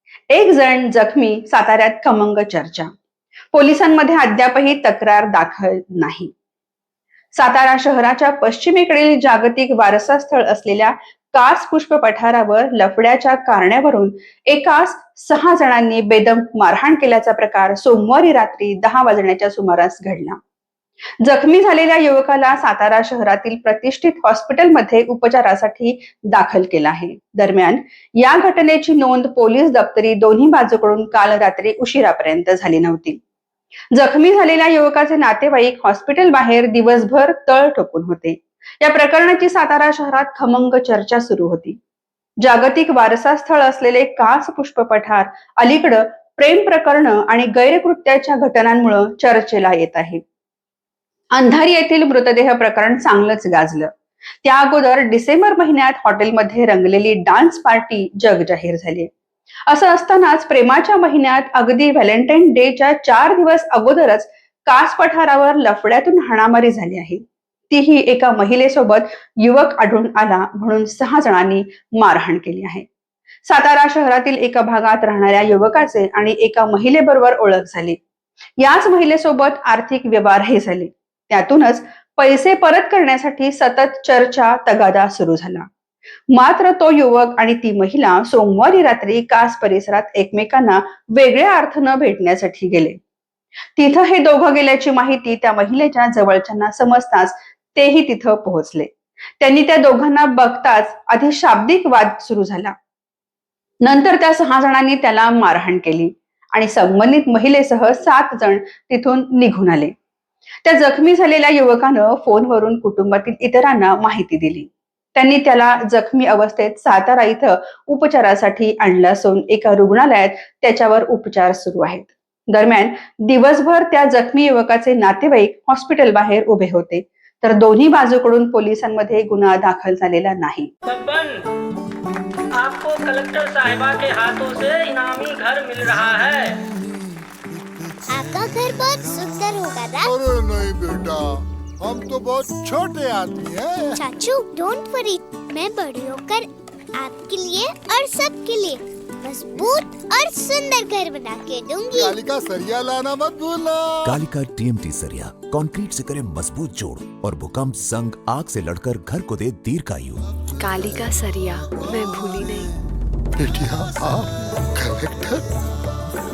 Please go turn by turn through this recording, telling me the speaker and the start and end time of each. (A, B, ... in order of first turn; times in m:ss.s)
0:00.3-0:02.9 A
0:03.5-0:06.3 A
0:07.3-0:20.4 A
0:21.2-0:33.2 A
0:33.9-0:41.8 A
0:42.4-0:50.2 A
0:51.3-0:53.9 A
0:54.4-0:59.1 A
0:59.7-1:12.8 A
1:13.5-1:18.0 A
1:18.6-1:25.7 A
1:26.3-1:33.0 A
1:33.8-1:42.8 A
1:43.8-1:49.9 A
1:50.6-2:10.7 A
2:10.9-2:11.4 B
2:12.5-2:16.5 B
2:18.1-2:20.1 C
2:20.0-2:24.0 D
2:24.0-2:32.1 C
2:31.9-2:34.2 D
2:34.0-2:40.2 E
2:40.6-2:42.7 F
2:43.4-2:45.5 D